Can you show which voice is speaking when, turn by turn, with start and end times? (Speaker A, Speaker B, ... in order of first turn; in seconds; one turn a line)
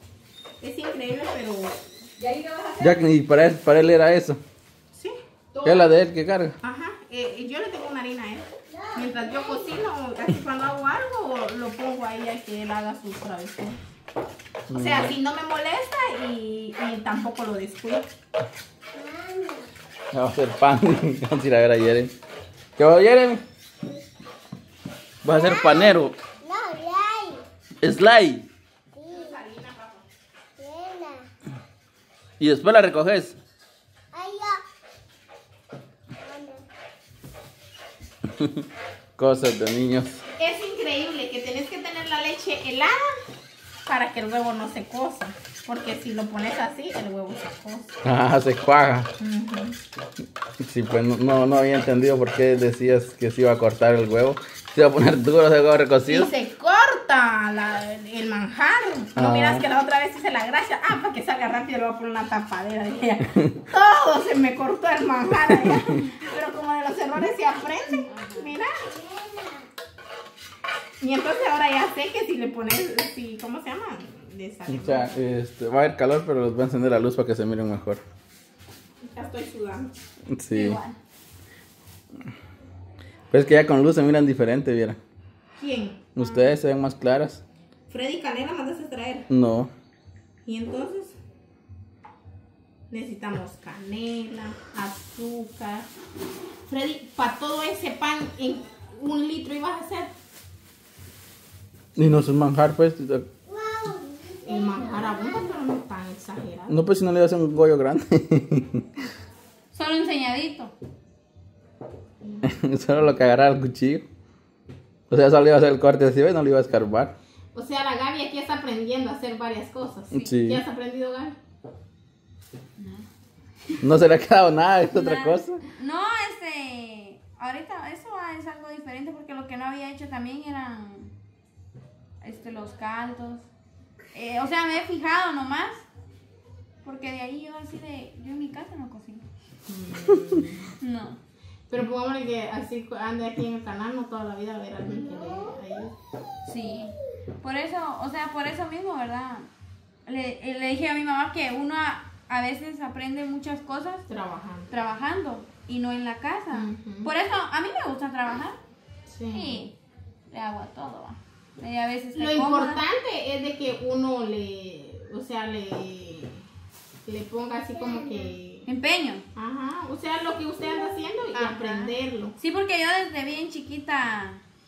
Speaker A: 0.6-2.9
Speaker B: 2.8-4.4
Speaker A: 4.9-5.9
Speaker B: 5.6-6.6
Speaker A: 6.6-13.8
Speaker B: 14.7-15.2
Speaker A: 14.7-18.1
Speaker C: 19.0-19.7
Speaker B: 20.1-22.1
Speaker B: 22.8-23.4
Speaker B: 25.2-26.2
Speaker C: 26.4-27.4
Speaker B: 27.8-28.5
Speaker A: 29.1-30.1
Speaker C: 30.6-31.3
Speaker B: 32.4-33.4
Speaker C: 34.1-34.6
Speaker C: 36.2-36.6
Speaker B: 39.2-40.2
Speaker A: 40.4-43.1
Speaker A: 43.9-48.0
Speaker B: 48.0-49.1
Speaker A: 49.2-49.8
Speaker B: 50.6-56.3
Speaker A: 56.1-68.7
Speaker B: 59.2-59.6
Speaker D: 66.0-66.2
Speaker D: 68.1-68.5
Speaker A: 71.0-75.2
Speaker B: 74.7-78.0
Speaker A: 79.0-79.9
Speaker B: 80.3-80.8
Speaker D: 80.5-81.0
Speaker B: 83.3-85.0
Speaker A: 85.6-86.1
Speaker B: 86.2-87.4
Speaker D: 86.2-86.5
Speaker A: 87.9-89.3
Speaker B: 89.3-89.7
Speaker A: 90.5-91.2
Speaker A: 92.9-95.9
Speaker A: 96.7-100.1
Speaker B: 102.0-103.3
Speaker A: 104.5-106.8
Speaker B: 106.7-109.0
Speaker D: 109.7-110.7
Speaker A: 112.2-112.5
Speaker B: 112.4-114.1
Speaker B: 115.1-117.1
Speaker A: 117.5-121.4
Speaker D: 120.1-120.4
Speaker B: 120.2-120.6
Speaker D: 122.8-123.1
Speaker B: 123.8-125.6
Speaker D: 124.9-131.1
Speaker D: 132.2-133.5
Speaker D: 134.1-135.8
Speaker D: 136.8-139.2
Speaker A: 139.7-140.7
Speaker D: 140.8-141.2
Speaker A: 141.7-145.9
Speaker D: 146.4-149.5
Speaker D: 150.1-154.1
Speaker A: 154.1-154.7
Speaker D: 154.7-158.6
Speaker A: 156.5-157.1
Speaker A: 159.1-159.6
Speaker D: 159.3-159.7
Speaker D: 160.3-162.8
Speaker A: 162.1-166.4
Speaker A: 167.1-168.7
Speaker D: 168.7-169.3
Speaker A: 169.3-172.4
Speaker D: 171.3-174.4